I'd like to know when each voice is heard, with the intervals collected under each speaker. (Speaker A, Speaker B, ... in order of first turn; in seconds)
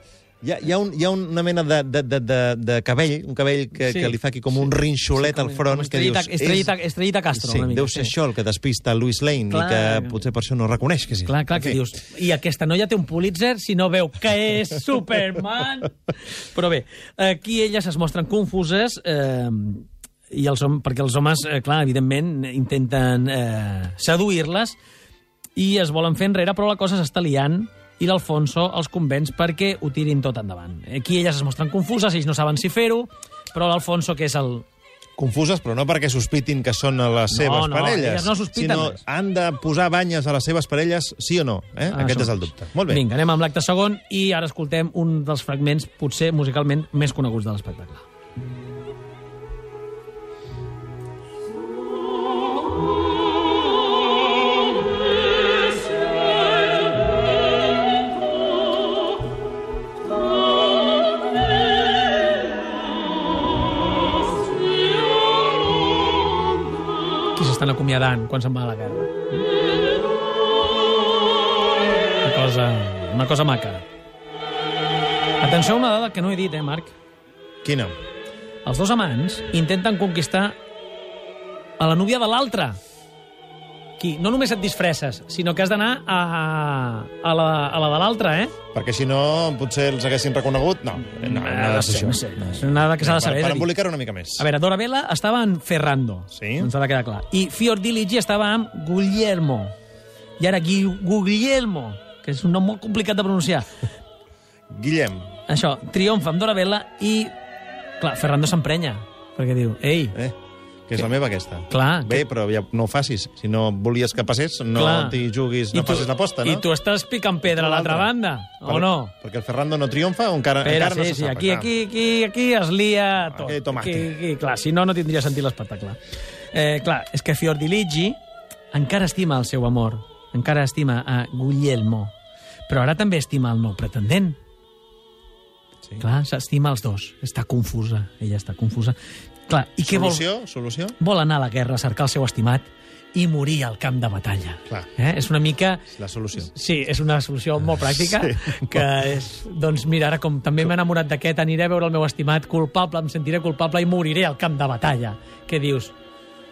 Speaker A: 0.4-6.7, 7.3-11.8, 35.2-43.0, 77.6-77.9, 88.7-94.5, 96.3-96.7, 104.7-105.3, 110.9-116.6, 117.5-118.1, 118.6-121.7, 123.3-124.1, 139.8-140.9, 145.9-146.5, 148.2-148.6
Speaker B: 3.8-4.1, 5.1-8.1, 9.5-10.2, 11.2-24.8, 25.6-34.6, 37.3-39.0, 41.9-48.0, 67.3-69.2, 72.2-73.8, 75.4-76.9, 78.6-80.5, 81.8-82.8, 84.0-88.5, 91.1-93.7, 94.4-99.7, 100.4-103.7, 105.5-107.3, 108.0-110.1, 111.7-112.2, 114.7-119.1, 120.6-126.0, 126.5-128.2, 128.7-132.1, 132.7-134.4, 136.0-138.9, 139.5-140.2, 141.0-155.9